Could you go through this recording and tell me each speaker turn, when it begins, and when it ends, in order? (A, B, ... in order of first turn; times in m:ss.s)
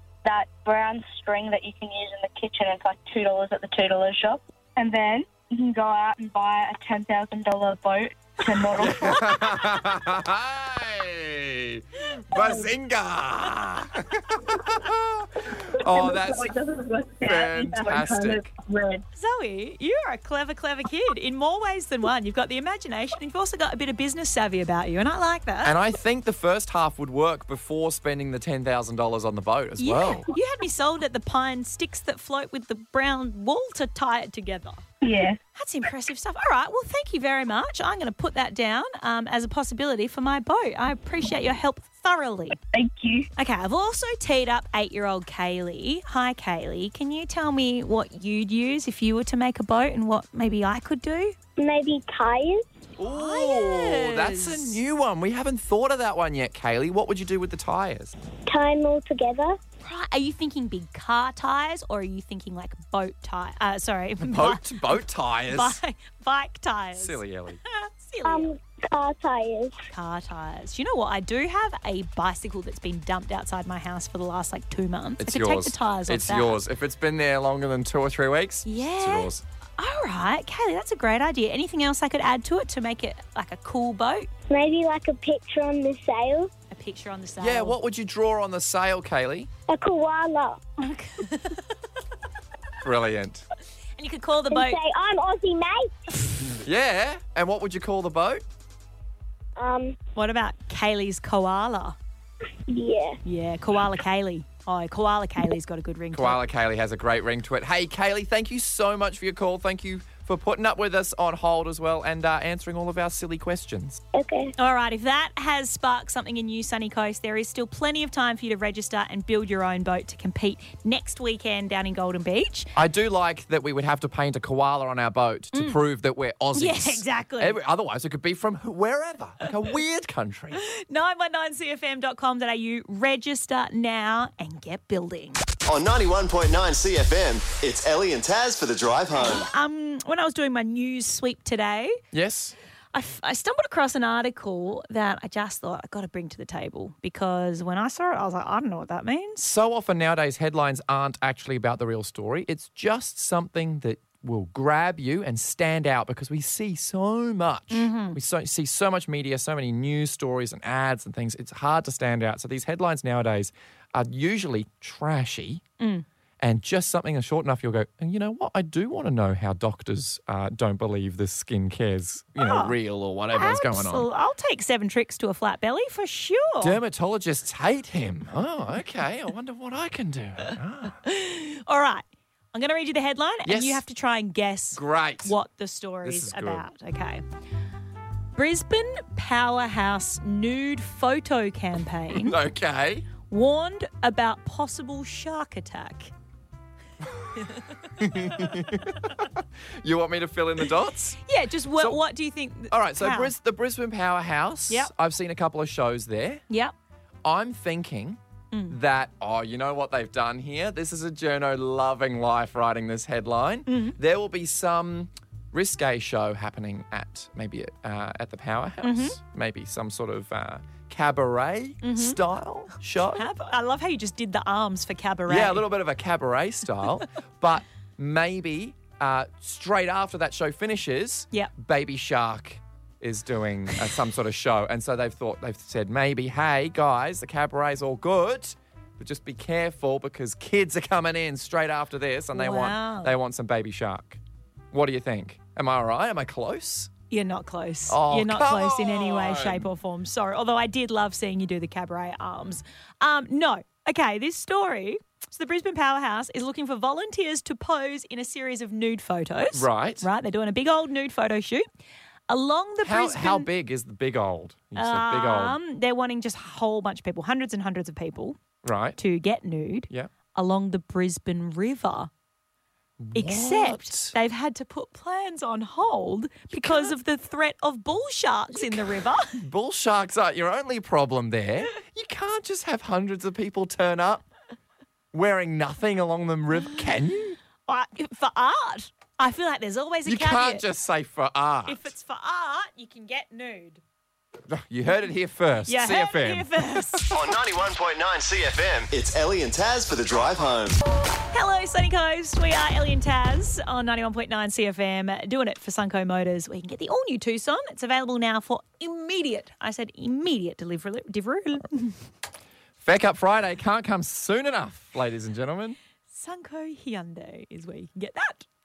0:00.2-0:09.7 A
0:08.7-0:16.5 B
0:12.3-0:12.7 A
0:14.4-0:14.7 A
0:15.4-0:19.0 A
0:17.2-0:18.5 B
0:19.1-0:25.8 C
0:25.6-0:30.3 B
0:29.8-0:34.8 C
0:35.0-0:35.4 A
0:35.5-0:42.6 C
0:42.7-0:43.3 A
0:43.4-0:51.4 C
0:51.6-0:52.7 D
0:53.0-0:58.1 B
0:53.0-0:54.8 C
0:58.5-0:59.6 D
0:59.8-1:04.7 C
1:04.2-1:05.8 B
1:05.5-1:08.5 C
1:06.9-1:07.6 B
1:08.2-1:09.8 D
1:09.9-1:16.6 C
1:15.2-1:19.4 B
1:18.6-1:24.3 C
1:24.5-1:26.5 D
1:26.7-1:27.8 C
1:27.4-1:29.5 B
1:29.7-1:30.6 D
1:30.8-1:31.7 C
1:32.8-1:33.4 B
1:34.0-1:34.8 C
1:34.5-1:36.3 D
1:36.6-1:38.4 B
1:39.6-1:40.0 D
1:40.2-1:42.0 C
1:42.7-1:43.2 D
1:43.2-1:46.4 C
1:46.1-1:54.0 B
1:54.1-1:54.5 D
1:54.6-2:02.7 C
2:02.8-2:10.6 B
2:05.5-2:05.8 C
2:06.5-2:07.6 C
2:10.5-2:15.4 C
2:15.7-2:19.5 E
2:19.2-2:22.0 C
2:22.1-2:22.5 B
2:22.9-2:29.4 C
2:29.4-2:45.6 B
2:37.7-2:38.2 C
2:45.8-2:46.0 C
2:46.4-2:54.1 B
2:52.4-2:52.8 C
2:53.3-2:56.8 C
2:56.6-3:01.0 B
3:01.0-3:07.2 C
3:03.4-3:03.8 B
3:04.7-3:05.3 B
3:06.0-3:06.6 B
3:08.4-3:12.4 C
3:12.1-3:13.1 B
3:13.3-3:16.1 C
3:17.0-3:17.4 B
3:17.4-3:18.8 C
3:18.0-3:21.2 B
3:21.2-3:23.3 C
3:21.8-3:22.0 B
3:22.7-3:26.4 B
3:27.2-3:43.3 B
3:28.5-3:28.8 C
3:33.7-3:34.0 C
3:38.8-3:39.2 C
3:41.8-3:42.2 C
3:43.1-3:45.7 C
3:45.3-4:04.2 B
4:02.3-4:03.1 C
4:04.7-4:06.9 B
4:07.1-4:21.7 C
4:07.9-4:09.7 B
4:19.5-4:20.1 B
4:22.3-4:23.5 C
4:22.8-4:25.6 B
4:24.7-4:28.4 C
4:28.6-4:29.0 B
4:29.0-4:32.1 C
4:33.0-4:34.1 B
4:33.1-4:39.4 C
4:36.5-4:36.9 B
4:38.6-4:44.3 B
4:45.1-4:47.4 B
4:47.7-4:50.6 C
4:50.0-4:51.9 B
4:51.6-4:53.8 C
4:54.5-4:57.2 B
4:55.7-4:57.1 C
4:57.1-5:00.8 E
5:01.3-5:12.0 C
5:12.8-5:15.8 B
5:16.1-5:18.4 C